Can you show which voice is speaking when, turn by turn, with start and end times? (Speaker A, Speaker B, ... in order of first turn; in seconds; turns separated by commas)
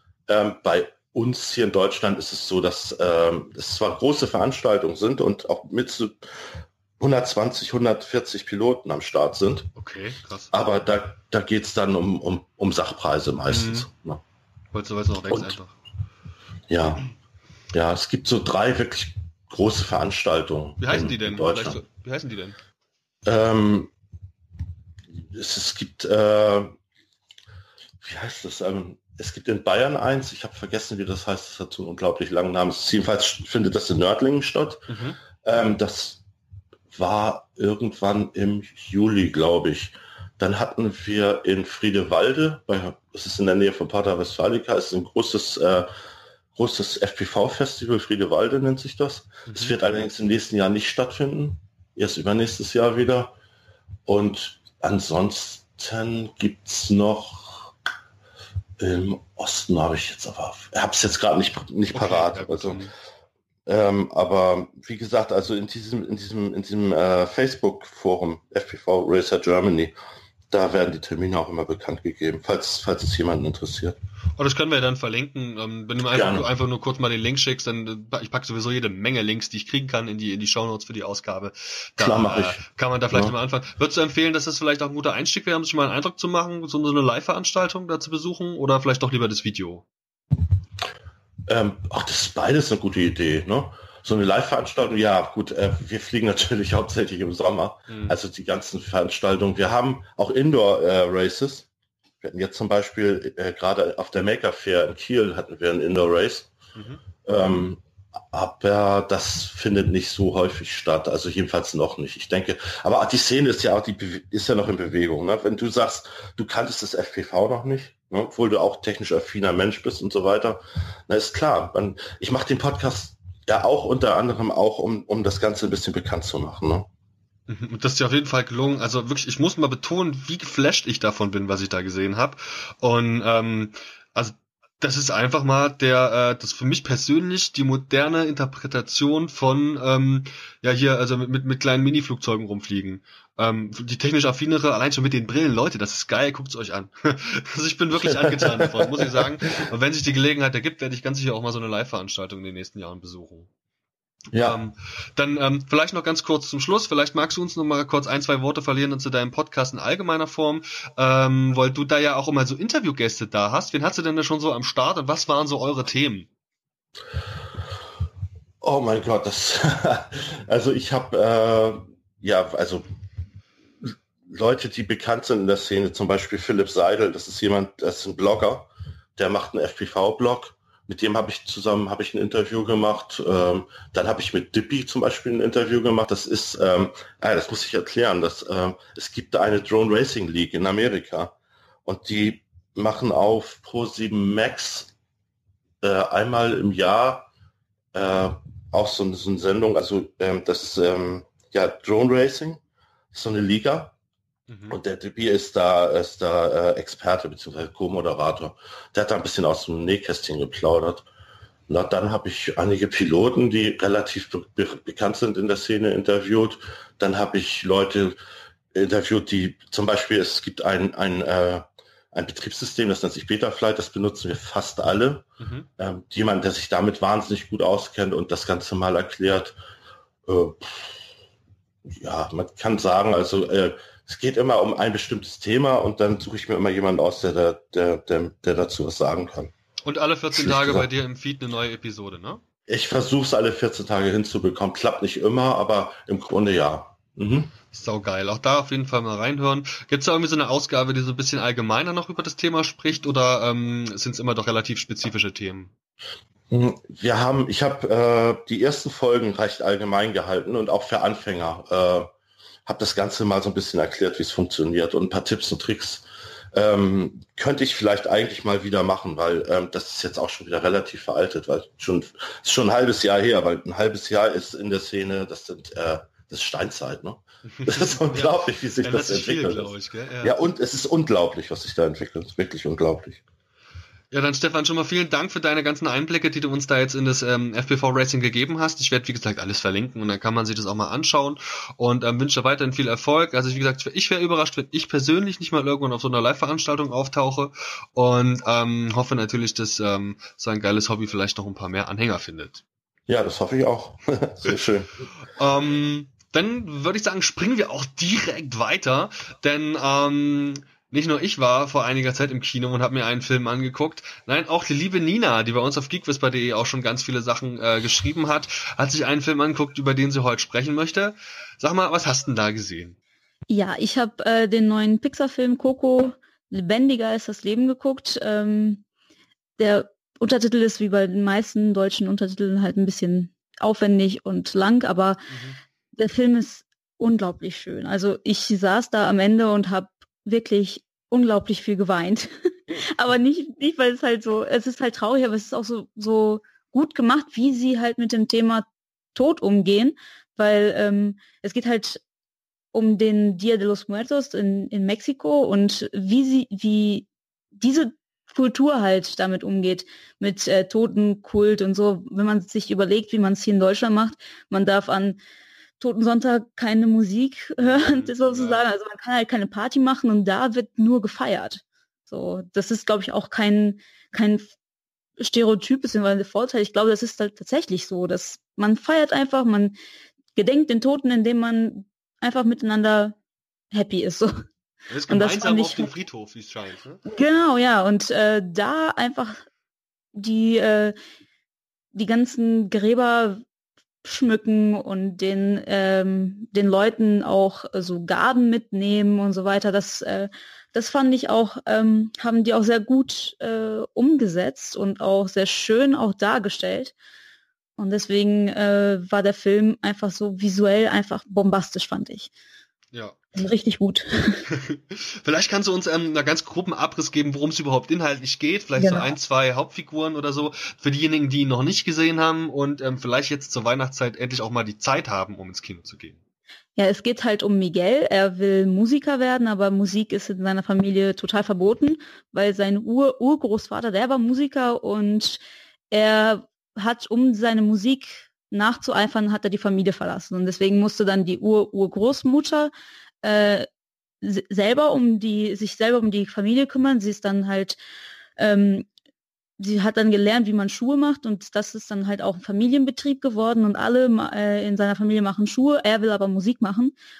Speaker A: 0.3-6.3, Speaker A: 7.0-9.7, Speaker B: 9.8-10.5, Speaker A: 10.5-14.2, Speaker B: 13.5-13.9, Speaker B: 14.7-15.7, Speaker A: 16.7-17.1, Speaker A: 17.7-21.8, Speaker B: 20.8-22.6, Speaker A: 23.2-23.9, Speaker A: 25.2-26.8, Speaker A: 28.0-36.2, Speaker B: 34.9-35.2, Speaker A: 36.9-45.9, Speaker A: 46.5-53.3, Speaker B: 49.5-49.7, Speaker A: 54.0-57.7, Speaker A: 58.8-62.9, Speaker B: 61.9-62.9, Speaker A: 63.6-69.9, Speaker A: 70.5-74.0, Speaker B: 74.4-89.8, Speaker A: 76.1-76.5, Speaker A: 82.0-82.6, Speaker A: 91.5-101.7, Speaker B: 97.9-98.1, Speaker A: 102.2-106.5, Speaker B: 106.8-107.0, Speaker A: 107.2-107.8, Speaker A: 108.3-126.9, Speaker B: 127.5-153.5, Speaker A: 148.0-149.2, Speaker A: 154.3-154.6, Speaker B: 154.4-166.3, Speaker A: 168.6-172.8, Speaker A: 173.8-194.9, Speaker A: 195.8-197.3, Speaker A: 197.9-202.6, Speaker A: 203.1-203.9, Speaker B: 204.5-204.8, Speaker A: 204.7-211.1, Speaker A: 211.7-218.2, Speaker A: 218.7-225.3, Speaker B: 225.4-225.7, Speaker A: 225.8-229.6, Speaker A: 230.3-231.0, Speaker A: 231.8-239.5, Speaker B: 239.8-242.4, Speaker A: 240.3-240.9, Speaker A: 242.7-247.5, Speaker B: 247.7-255.7, Speaker A: 256.5-262.1, Speaker A: 262.6-283.2, Speaker B: 277.5-280.4, Speaker B: 284.1-302.6, Speaker A: 303.1-305.1, Speaker B: 305.4-322.9, Speaker C: 323.5-328.8, Speaker C: 329.6-335.2, Speaker B: 335.3-335.6, Speaker C: 336.0-352.0, Speaker C: 352.7-357.1, Speaker C: 357.6-365.2, Speaker C: 365.8-374.5, Speaker B: 367.6-368.6, Speaker C: 375.2-379.7, Speaker C: 380.3-383.2, Speaker C: 383.7-384.4, Speaker B: 384.9-387.0, Speaker C: 385.1-385.9, Speaker C: 387.1-389.4, Speaker C: 390.1-390.9, Speaker C: 391.9-393.4, Speaker C: 394.0-406.9, Speaker C: 407.8-412.3, Speaker C: 413.3-414.4, Speaker B: 414.5-426.2, Speaker C: 418.8-419.1, Speaker C: 426.8-442.7, Speaker C: 443.2-443.7, Speaker C: 444.2-447.8, Speaker C: 448.4-448.9, Speaker C: 449.6-456.9